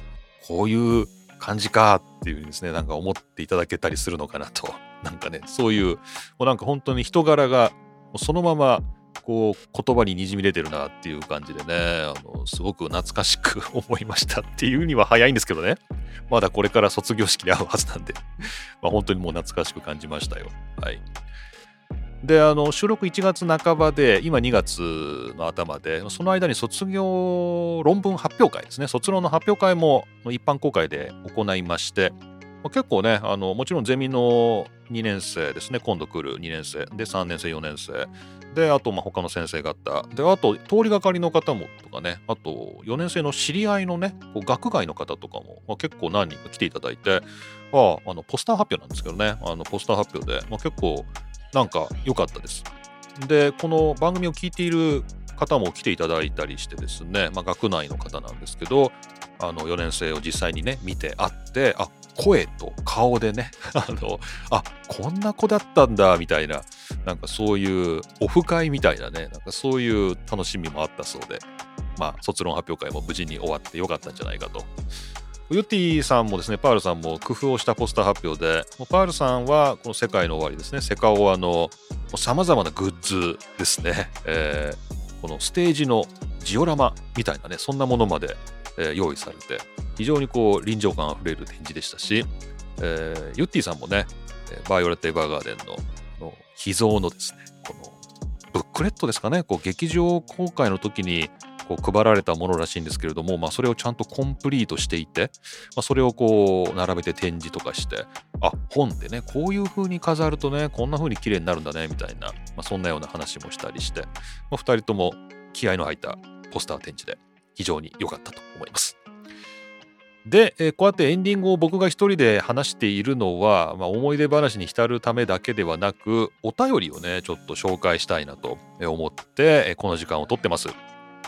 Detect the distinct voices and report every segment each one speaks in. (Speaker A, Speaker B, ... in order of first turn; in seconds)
Speaker A: 0.4-18.3, 18.8-21.0, 22.2-71.5, 72.0-74.7, 75.5-98.0, 98.5-119.0, 120.2-130.8